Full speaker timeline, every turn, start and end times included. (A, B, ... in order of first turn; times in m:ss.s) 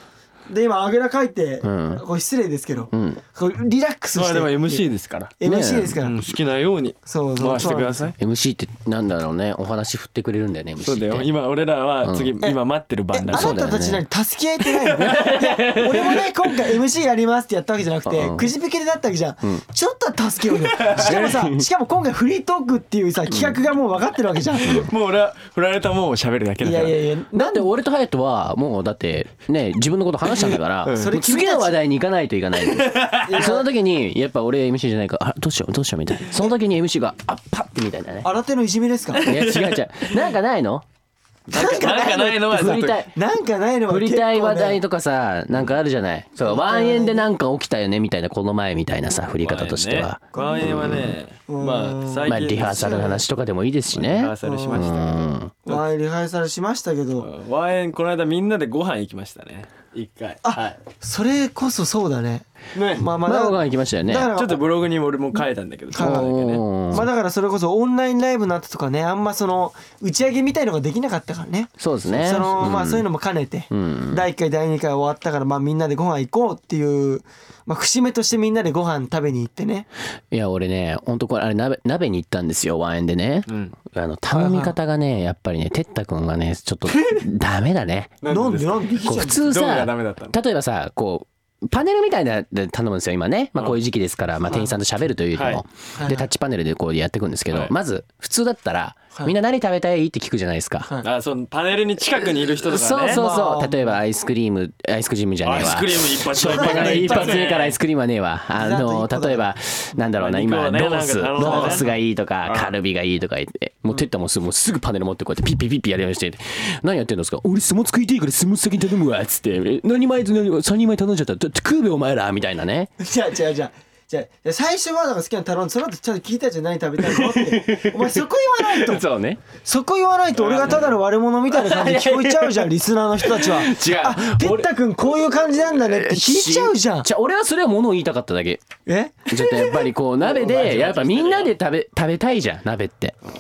0:00.5-0:04.8 A
0:01.6-0:02.0 B
0:02.9-0:03.2 B
0:04.2-0:05.3 C
0:05.4-0:06.3 A
0:05.4-0:06.0 B
0:06.0-0:08.1 C
0:07.0-0:08.1 A
0:08.2-0:11.3 B
0:10.8-0:13.5 C
0:12.0-0:12.3 B
0:13.1-0:24.9 A
0:13.3-0:14.0 B
0:14.8-0:16.3 C
0:15.0-0:16.1 B
0:18.1-0:18.5 B
0:20.6-0:21.3 C
0:20.9-0:21.6 B
0:24.6-0:27.0 C
0:26.6-0:27.7 A
0:27.3-0:38.3 B
0:30.3-0:31.2 C
0:31.0-0:31.8 A
0:32.7-0:33.5 C
0:33.2-0:33.7 A
0:38.2-0:39.3 A
0:39.1-0:40.3 C
0:39.2-0:40.8 B
0:41.5-0:43.0 C
0:41.5-0:44.8 A
0:42.0-0:43.1 B
0:43.9-0:51.2 B
0:46.4-0:47.3 A
0:49.4-0:53.1 C
0:50.3-0:50.8 A
0:51.5-0:53.2 A
0:52.2-0:55.5 B
0:53.9-0:55.8 C
0:54.4-0:54.9 A
0:55.6-0:57.3 A
0:57.2-1:00.8 C
1:00.4-1:04.6 A
1:02.7-1:03.1 C
1:03.2-1:04.3 B
1:04.3-1:06.6 C
1:05.9-1:06.3 A
1:06.0-1:07.1 B
1:06.9-1:19.9 A
1:11.8-1:13.0 B
1:13.7-1:14.2 B
1:20.3-1:28.2 B
1:23.5-1:23.7 C
1:24.3-1:24.7 A
1:28.2-1:30.4 C
1:28.3-1:29.6 A
1:29.0-1:40.9 B
1:34.5-1:34.8 A
1:35.3-1:35.6 C
1:36.0-1:36.3 A
1:37.5-1:37.7 C
1:41.0-1:43.2 C
1:42.6-2:02.9 B
1:43.1-1:44.0 A
1:45.4-1:47.8 C
1:46.4-1:47.5 A
1:48.5-1:49.4 A
1:50.2-1:51.9 C
1:51.4-1:51.9 A
1:52.4-1:52.7 C
2:03.0-2:09.0 A
2:07.1-2:09.4 B
2:09.6-2:17.1 A
2:10.4-2:10.9 C
2:11.5-2:12.7 B
2:13.2-2:14.7 B
2:15.8-2:18.7 B
2:18.8-2:19.9 A
2:19.3-2:23.2 B
2:20.2-2:21.5 C
2:20.6-2:20.9 A